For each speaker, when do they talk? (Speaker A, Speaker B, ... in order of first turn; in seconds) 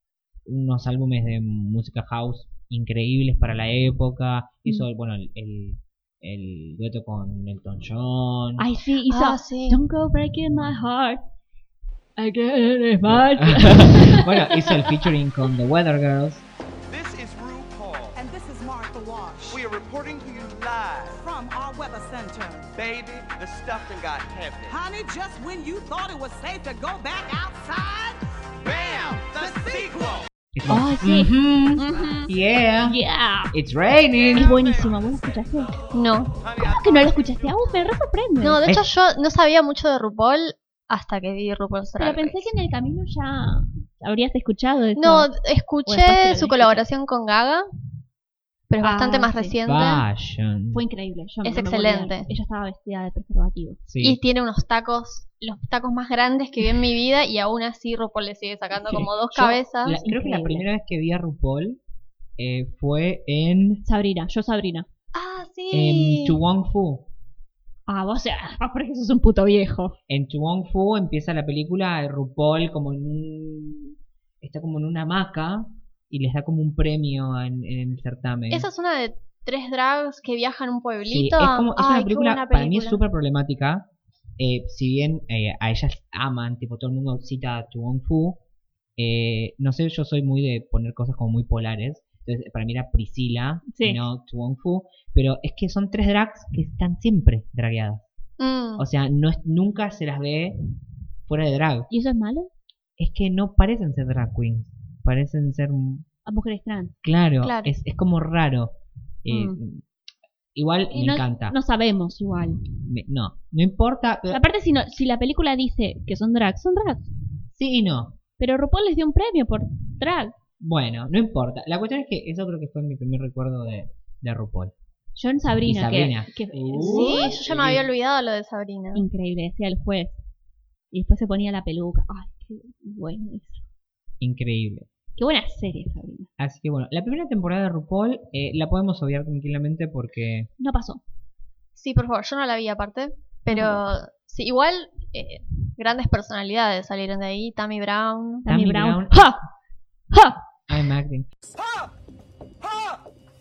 Speaker A: 0.5-8.7, 13.1-16.4, 30.5-33.0, 33.5-34.5, 49.7-50.8, 53.9-54.2, 59.0-61.8, 62.4-63.8, 65.7-67.1, 70.1-78.7, 81.0-83.9, 84.4-88.4, 89.0-98.1, 98.8-100.6, 101.3-101.9, 103.0-106.1, 107.0-109.8, 110.5-111.6, 112.8-114.4, 117.5-118.2, 120.6-124.7, 125.6-127.9, 134.2-134.9, 136.4-140.5, 148.5-149.4, 150.7-151.3
Speaker B: 8.6-11.2, 12.2-14.9, 30.7-32.3, 32.8-33.5, 34.3-35.8, 36.6-38.6, 42.0-45.3, 45.9-46.9, 48.8-49.5, 50.7-53.8, 60.0-60.7, 63.9-64.9, 67.9-70.0, 93.7-94.0, 101.9-102.5, 106.3-106.9, 109.3-109.6, 110.9-112.6, 114.3-117.1, 118.4-120.3, 125.2-127.3, 128.9-130.2, 130.9-133.6, 135.2-136.3, 140.6-141.0, 143.5-143.8, 148.5-149.4, 150.1-150.4
Speaker C: 9.1-9.8, 35.9-36.4, 38.4-42.5, 45.0-47.6, 48.7-50.0, 51.4-52.3, 54.0-60.0, 65.1-66.4, 78.5-83.0, 98.4-98.8, 107.4-107.7, 126.8-129.1, 141.8-148.5
Speaker D: 16.9-18.2, 19.5-21.2, 22.8-24.8, 28.6-30.2, 34.4-35.0, 36.4-37.5, 151.5-151.9, 152.6-153.0
Speaker E: 18.1-19.7, 21.1-22.7, 24.7-28.2, 29.3-30.0